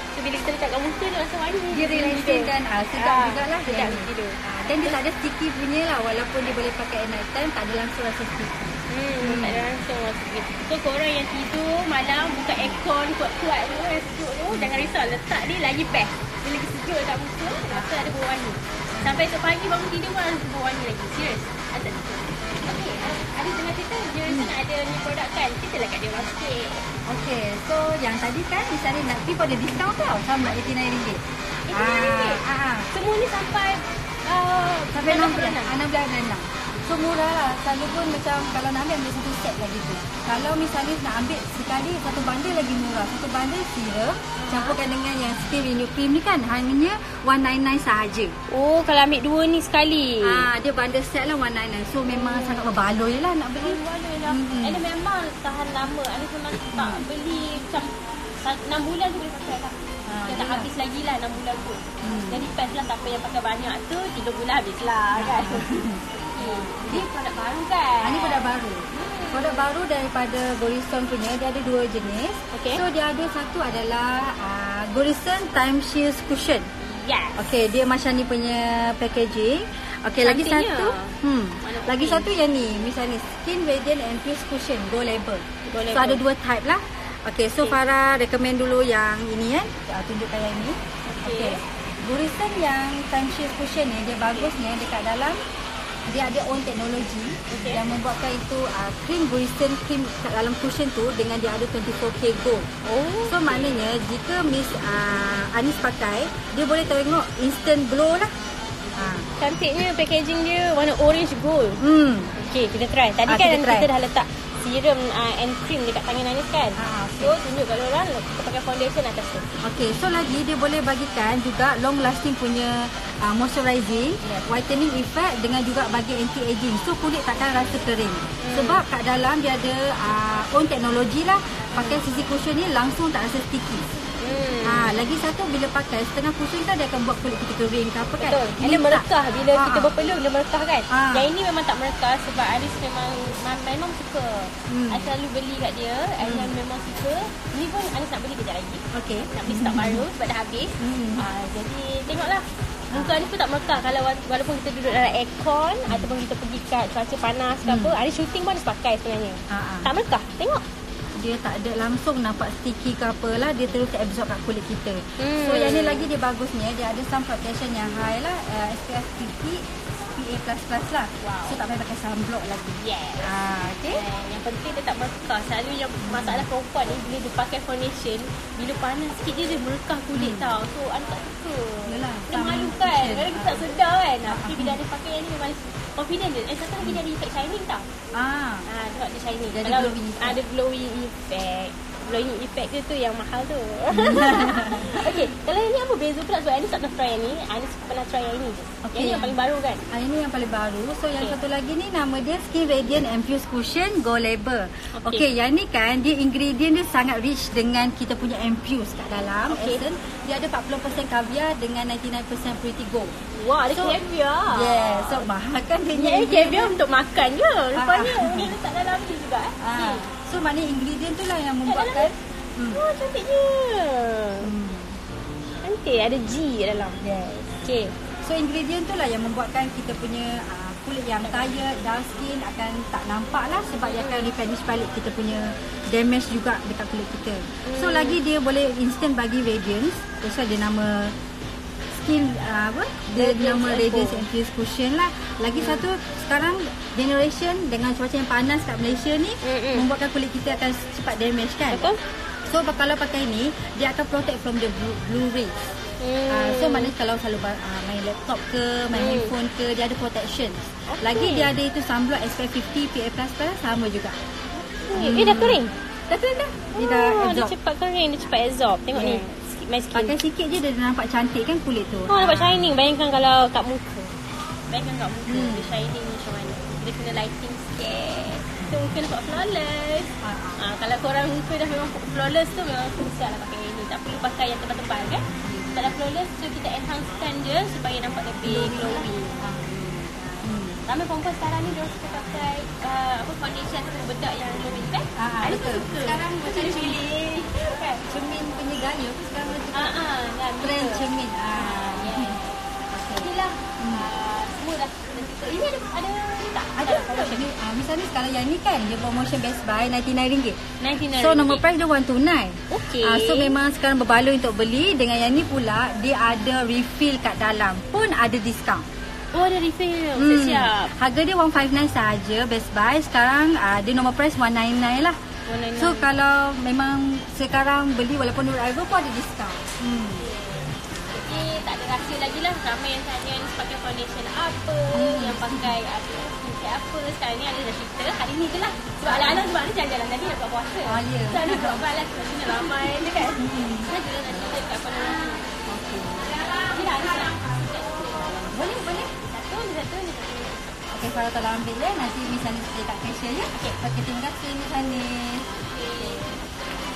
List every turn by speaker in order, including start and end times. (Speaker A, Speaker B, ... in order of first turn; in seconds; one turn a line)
Speaker A: 0.1-5.0
Speaker B: 1.7-9.7
Speaker A: 8.9-26.9
Speaker B: 17.7-18.1
Speaker B: 18.9-19.2
Speaker B: 24.3-24.5
Speaker B: 27.1-32.9
Speaker A: 31.7-32.4
Speaker A: 32.9-35.8
Speaker B: 34.9-48.4
Speaker A: 44.4-44.8
Speaker A: 48.5-50.5
Speaker B: 50.2-54.8
Speaker A: 52.1-52.7
Speaker A: 53.6-69.7
Speaker B: 56.7-57.0
Speaker B: 60.1-60.7
Speaker B: 62.0-62.4
Speaker B: 65.2-67.1
Speaker B: 68.0-76.7
Speaker A: 72.5-72.8
Speaker A: 76.8-77.5
Speaker B: 77.4-95.4
Speaker A: 80.2-82.3
Speaker A: 85.7-86.2
Speaker A: 91.1-91.6
Speaker B: 96.1-102.7
Speaker A: 97.5-97.8
Speaker A: 102.8-103.8
Speaker B: 103.3-108.3
Speaker B: 109.0-109.3
Speaker A: 109.4-111.8
Speaker B: 111.8-112.3
Speaker A: 112.4-119.5
Speaker B: 113.3-113.9
Speaker B: 116.8-117.4
Speaker B: 119.6-133.9
Speaker A: 128.4-128.8
Speaker A: 131.8-132.0
Speaker A: 134.2-135.0
Speaker B: 134.6-140.0
Speaker A: 138.2-160.6
Speaker B: 140.9-141.3
Speaker B: 144.7-145.1
Speaker B: 146.2-146.5
Speaker B: 148.9-150.0
Speaker B: 150.8-151.2
Speaker B: 152.9-153.2
Speaker B: 157.7-158.0
Speaker B: 159.5-159.9
Speaker B: 161.2-174.0
Speaker A: 165.2-166.1
Speaker A: 171.2-171.6
Speaker A: 172.8-173.3
Speaker A: 173.9-187.9
Speaker B: 176.0-176.4
Speaker B: 180.2-180.6
Speaker B: 181.9-183.7
Speaker B: 184.3-184.8
Speaker B: 188.1-188.7
Speaker A: 188.7-199.8
Speaker B: 189.5-190.4
Speaker B: 193.9-195.2
Speaker B: 198.8-199.3
Speaker B: 199.9-213.2
Speaker A: 204.9-205.3
Speaker A: 209.5-209.8
Speaker A: 213.3-215.3
Speaker B: 213.7-216.7
Speaker A: 215.9-220.1
Speaker B: 217.8-218.5
Speaker B: 219.6-222.8
Speaker A: 221.7-222.1
Speaker A: 222.7-224.5
Speaker B: 224.4-225.0
Speaker A: 225.6-227.0
Speaker B: 227.0-227.5
Speaker A: 227.6-227.9
Speaker B: 228.2-241.2
Speaker A: 233.9-234.3
Speaker A: 237.6-238.2
Speaker B: 241.9-251.9
Speaker A: 243.2-244.3
Speaker A: 245.6-245.9
Speaker A: 249.4-249.9
Speaker A: 251.7-252.0
Speaker B: 252.5-255.7
Speaker A: 256.0-256.9
Speaker B: 256.3-264.2
Speaker A: 258.9-259.4
Speaker A: 260.9-261.5
Speaker A: 264.9-265.8
Speaker B: 264.9-267.5
Speaker A: 266.7-270.2
Speaker B: 268.9-269.2
Speaker B: 269.9-272.7
Speaker A: 272.1-274.2
Speaker A: 274.7-289.4
Speaker B: 275.3-275.7
Speaker B: 280.2-280.6
Speaker B: 285.4-285.8
Speaker B: 288.4-290.8
Speaker A: 290.9-298.0
Speaker B: 295.2-299.9
Speaker A: 299.7-302.6
Speaker B: 300.6-302.4
Speaker B: 302.9-304.1
Speaker A: 303.2-307.4
Speaker B: 306.8-310.6
Speaker A: 310.8-311.6
Speaker B: 311.2-318.9
Speaker A: 312.7-313.6
Speaker A: 319.3-320.9
Speaker B: 320.2-325.2
Speaker A: 325.5-326.1
Speaker B: 325.8-330.2
Speaker A: 330.2-345.5
Speaker B: 334.9-335.7
Speaker B: 339.1-339.4
Speaker B: 340.9-341.8
Speaker B: 343.4-343.9
Speaker B: 345.7-346.4
Speaker A: 346.4-350.7
Speaker B: 348.5-349.1
Speaker B: 350.9-355.5
Speaker A: 353.5-353.8
Speaker A: 355.7-356.3